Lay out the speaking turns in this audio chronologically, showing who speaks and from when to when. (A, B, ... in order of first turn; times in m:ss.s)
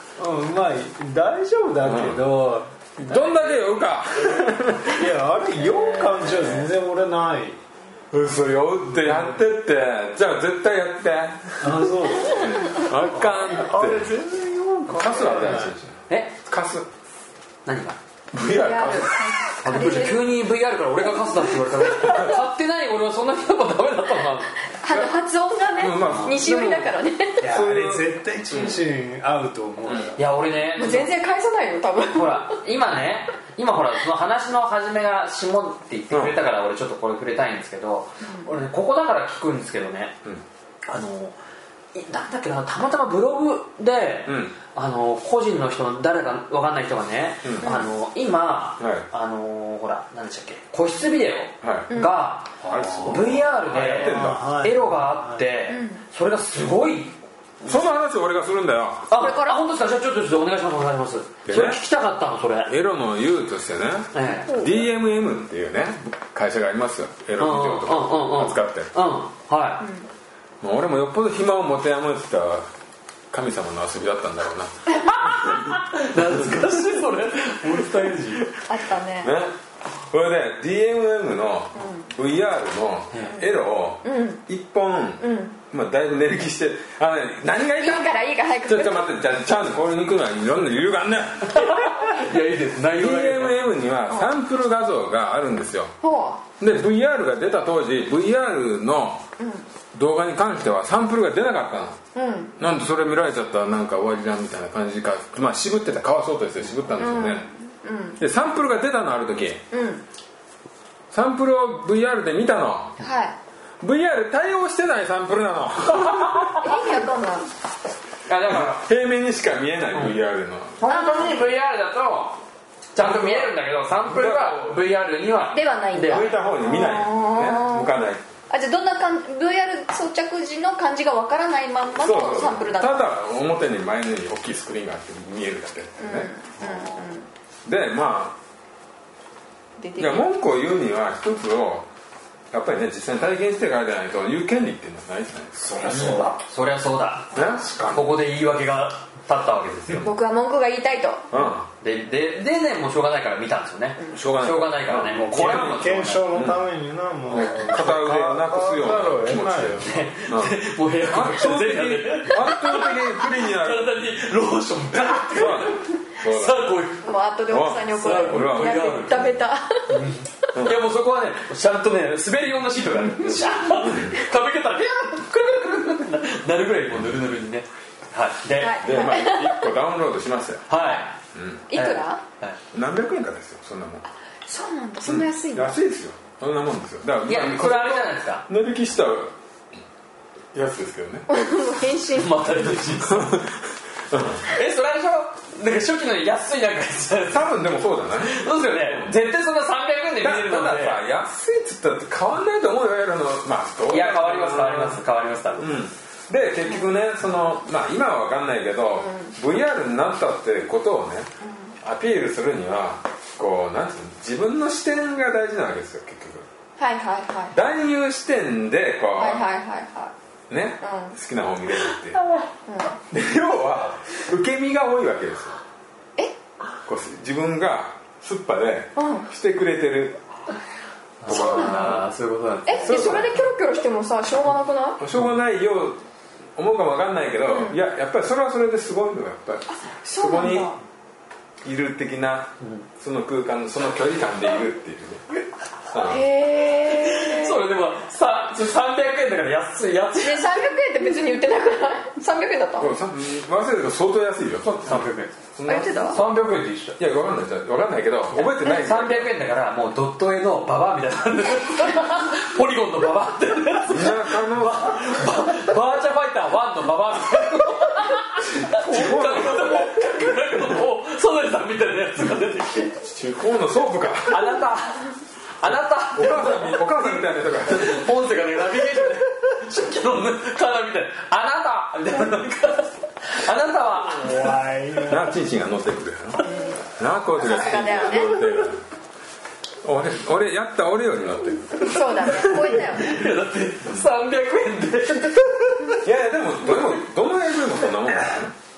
0:00.2-0:03.2 A
0:01.8-0:02.2 B
0:03.0-0:05.0 B
0:04.8-0:07.6 A
0:05.6-0:06.7 C
0:08.1-0:14.2 B
0:09.0-0:09.3 A
0:11.6-0:15.8 A
0:14.9-0:16.9 B
0:16.1-0:16.4 C
0:17.7-0:18.0 C
0:18.3-0:19.5 B
0:18.5-0:20.4 D
0:19.6-0:24.6 C
0:22.1-0:22.4 B
0:24.7-0:27.6 D
0:25.8-0:28.1 B
0:27.4-0:30.3 A
0:30.1-0:31.1 C
0:30.8-0:32.6 D
0:32.1-0:40.2 C
0:36.1-0:36.4 B
0:38.2-0:38.5 D
0:40.9-0:41.4 C
0:41.9-0:57.8 C
0:44.3-0:44.6 B
0:47.4-0:47.7 B
0:47.6-0:47.9 D
0:48.8-0:49.1 B
0:51.6-0:51.9 B
0:51.9-0:52.2 D
0:52.6-0:55.4 A
0:52.6-0:54.6 B
0:55.7-0:56.0 D
0:57.6-0:59.1 B
0:59.1-1:02.7 C
0:59.1-0:59.6 D
1:01.5-1:01.8 B
1:02.7-1:08.9 B
1:04.1-1:04.6 C
1:04.5-1:04.9 D
1:07.4-1:09.9 C
1:09.8-1:10.1 D
1:10.6-1:12.7 B
1:13.3-1:15.8 B
1:15.1-1:18.5 C
1:18.6-1:19.3 D
1:19.2-1:28.1 B
1:21.8-1:22.1 D
1:23.1-1:23.4 C
1:24.0-1:24.4 D
1:25.2-1:25.6 D
1:27.8-1:29.1 D
1:28.6-1:32.2 B
1:31.5-1:33.7 C
1:32.9-1:36.0 B
1:36.0-1:36.4 D
1:36.6-1:39.2 B
1:39.4-1:39.7 D
1:39.9-1:42.0 B
1:42.2-1:42.6 D
1:42.6-1:47.5 B
1:47.0-1:48.2 D
1:48.2-1:49.6 B
1:49.7-1:50.0 D
1:51.1-1:53.0 B
1:53.0-1:53.4 D
1:53.8-1:56.7 B
1:56.1-1:56.6 C
1:56.6-1:57.5 D
1:58.3-1:58.8 C
1:58.5-2:00.8 B
2:00.8-2:02.4 C
2:00.8-2:01.4 D
2:02.9-2:06.3 C
2:03.0-2:03.5 B
2:04.1-2:04.9 B
2:05.5-2:08.0 D
2:06.0-2:08.2 B
2:08.5-2:13.1 D
2:12.0-2:16.3 B
2:16.0-2:17.3 D
2:16.6-2:17.1 C
2:17.6-2:18.4 B
2:19.8-2:20.3 D
2:20.0-2:21.9 B
2:22.5-2:26.2 B
2:25.6-2:26.4 A
2:25.9-2:27.4 C
2:27.3-2:28.0 B
2:27.5-2:28.0 A
2:27.9-2:30.1 C
2:30.0-2:31.3 D
2:31.3-2:31.7 B
2:31.8-2:36.5 C
2:34.1-2:36.6 B
2:35.2-2:40.0 A
2:37.3-2:43.9 B
2:39.8-2:47.1 C
2:45.3-2:46.7 B
2:47.0-2:50.0 D
2:47.5-2:49.4 B
2:47.9-2:49.2 C
2:49.9-2:58.8 C
2:50.5-2:50.8 B
2:53.2-2:54.2 B
2:58.6-2:59.7 D
2:58.8-3:00.7 B
3:00.7-3:01.2 C
3:01.3-3:01.7 B
3:01.7-3:02.2 D
3:01.7-3:02.6 C
3:02.7-3:04.0 B
3:04.5-3:05.8 D
3:05.0-3:09.3 B
3:07.3-3:08.5 C
3:10.5-3:11.3 B
3:11.3-3:12.5 D
3:12.2-3:13.4 C
3:13.1-3:14.5 B
3:14.4-3:17.6 C
3:17.3-3:19.1 B
3:18.2-3:21.0 C
3:20.2-3:25.0 B
3:23.9-3:25.8 C
3:25.6-3:31.3 B
3:29.0-3:29.3 D
3:31.4-3:31.8 D
3:31.8-3:36.5 B
3:36.8-3:37.6 D
3:37.5-3:39.5 B
3:39.2-3:40.1 D
3:40.5-3:42.2 B
3:40.8-3:41.2 D
3:42.7-3:43.0 D
3:43.1-3:45.6 B
3:46.8-3:50.2 B
3:49.0-3:49.3 D
3:51.2-3:53.3 C
3:51.2-3:52.0 B
3:51.3-3:52.0 D
3:52.7-3:55.0 D
3:52.9-3:53.4 B
3:55.0-3:56.0 B
3:56.6-4:00.7 B
3:57.5-3:57.8 D
3:59.7-4:00.8 D
4:01.6-4:05.2 B
4:02.6-4:02.9 C
4:05.9-4:06.3 B
4:06.0-4:07.6 D
4:06.8-4:10.6 C
4:10.2-4:12.9 D
4:12.8-4:16.2 B
4:14.9-4:15.4 C
4:15.6-4:16.2 D
4:16.1-4:17.0 C
4:17.0-4:19.3 B
4:18.4-4:33.0 C
4:23.9-4:25.2 B
4:28.6-4:29.9 B
4:33.0-4:34.6 B
4:34.3-4:44.9 C
4:36.1-4:38.1 B
4:44.2-4:45.4 A
4:45.0-4:48.8 B
4:46.4-4:48.5 D
4:49.8-4:52.6 B
4:51.8-4:53.2 D
4:51.9-4:56.0 C
4:56.0-4:58.6 B